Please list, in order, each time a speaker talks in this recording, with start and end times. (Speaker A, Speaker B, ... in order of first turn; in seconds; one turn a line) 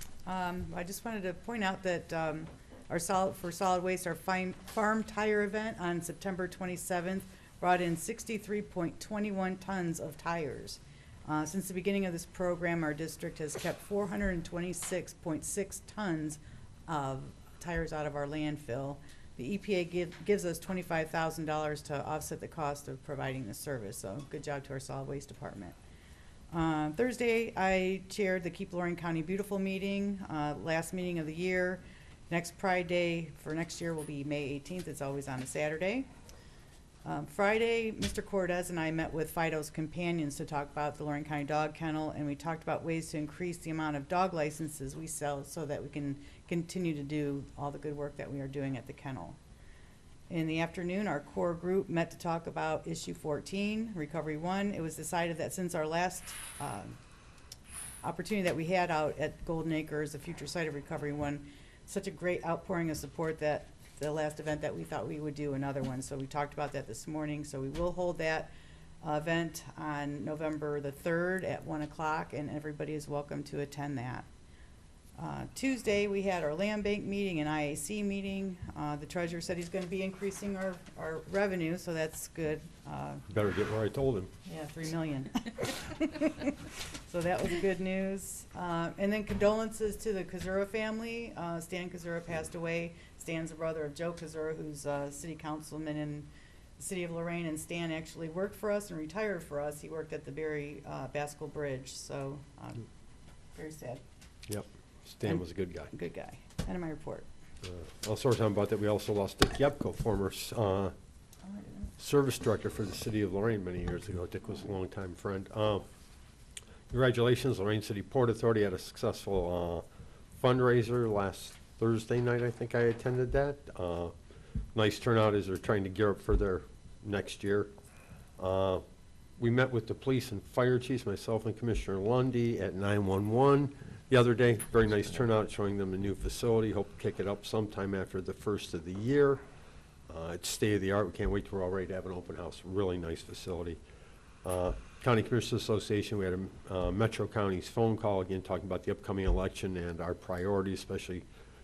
Speaker A: 0.2-25.8
Speaker A: 26.5-36.1
Speaker A: 37.0-49.4
Speaker A: 50.3-57.0
Speaker A: 58.0-74.2
Speaker A: 75.2-83.2
Speaker B: 83.3-84.3
Speaker A: 84.5-86.5
Speaker A: 87.1-102.9
Speaker A: 103.5-104.0
Speaker B: 104.5-105.9
Speaker A: 105.2-107.2
Speaker B: 107.6-110.9
Speaker A: 111.4-111.9
Speaker B: 112.0-115.8
Speaker B: 116.9-119.8
Speaker B: 120.4-124.1
Speaker B: 124.7-127.7
Speaker B: 128.4-128.8
Speaker B: 129.4-139.4
Speaker B: 140.1-143.8
Speaker B: 144.4-151.2